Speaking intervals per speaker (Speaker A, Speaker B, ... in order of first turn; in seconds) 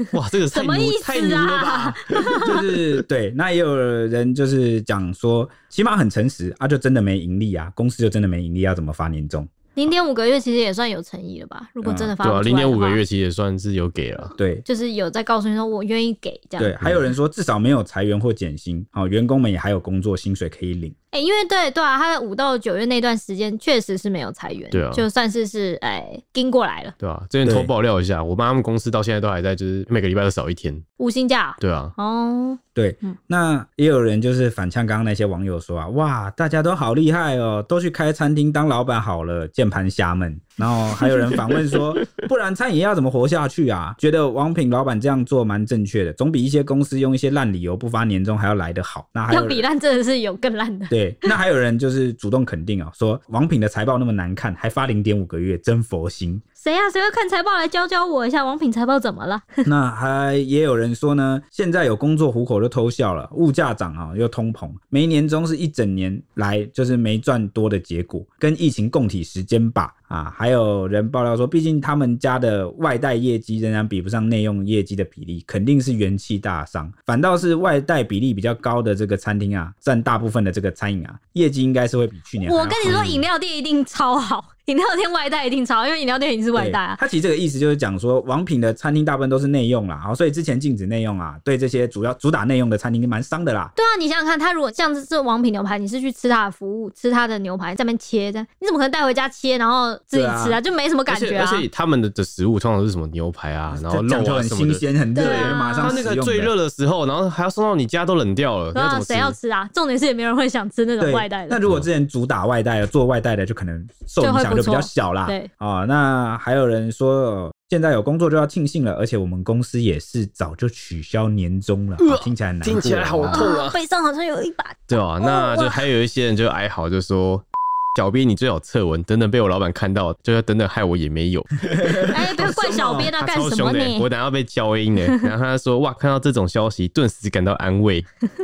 Speaker A: 0.1-2.6, 12.2-14.3, 24.7-25.1, 27.0-30.8, 31.6-31.9, 82.8-83.2, 101.1-109.3, 122.0-123.8, 124.9-138.1
Speaker B: 0.5-2.6, 9.8-13.0, 14.6-16.8, 21.1-26.9, 31.0-33.1, 49.3-51.3, 56.6-59.6, 82.4-87.0, 93.8-101.7, 105.1-106.0, 108.7-111.6, 114.2-115.5, 123.3-125.8, 132.1-134.1
Speaker C: 2.4-9.5, 11.8-12.1, 14.3-14.6, 16.6-20.9, 27.4-27.7, 32.7-49.6, 50.9-56.4, 59.6-83.1, 86.5-93.7, 100.1-100.6, 103.7-106.5, 111.0-123.5, 131.6-133.1